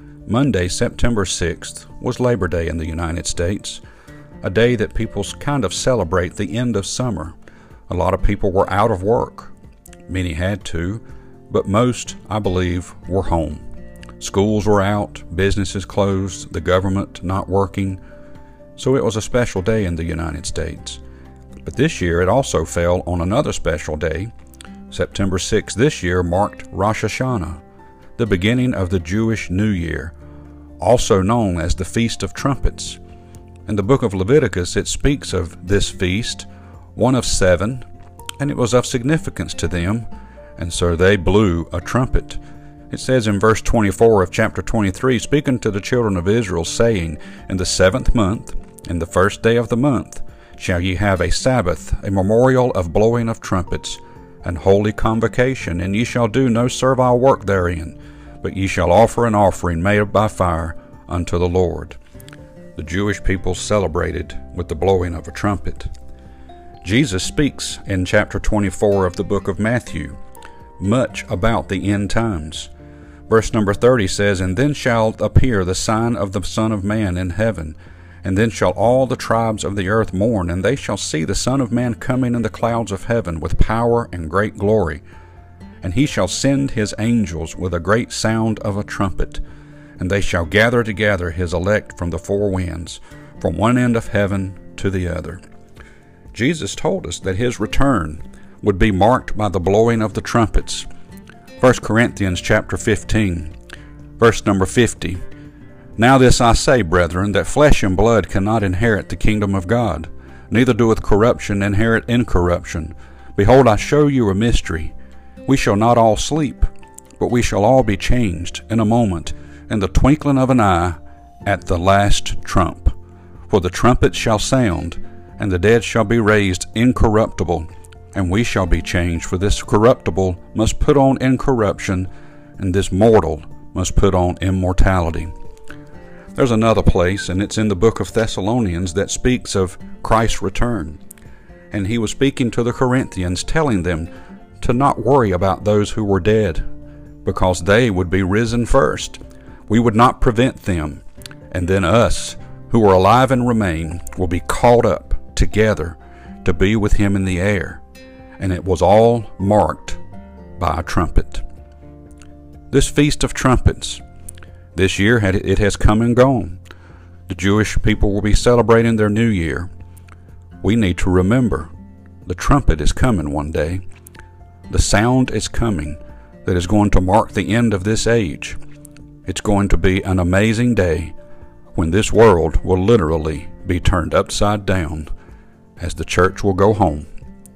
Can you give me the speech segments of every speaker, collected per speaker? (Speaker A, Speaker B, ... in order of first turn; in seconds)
Speaker A: 0.2-3.8, 4.4-7.3, 7.9-9.5, 10.1-13.6, 14.2-18.0, 18.8-21.0, 21.6-24.3, 24.9-27.6, 28.2-30.1, 30.8-33.0, 33.6-37.9, 38.4-62.0, 62.8-65.9, 66.8-70.2, 70.8-72.7, 73.3-85.0, 85.8-89.4, 90.0-95.4, 96.3-100.9, 101.6-103.5, 104.2-105.2, 106.0-114.9, 115.5-122.9, 123.5-135.3, 136.3-141.0, 141.7-146.7, 147.2-157.8, 158.4-160.0, 160.6-161.4, 162.7-164.0, 164.7-166.6, 167.3-169.7, 170.6-171.7, 172.2-173.8, 174.7-178.6, 179.2-181.1, 181.7-185.1, 185.8-187.1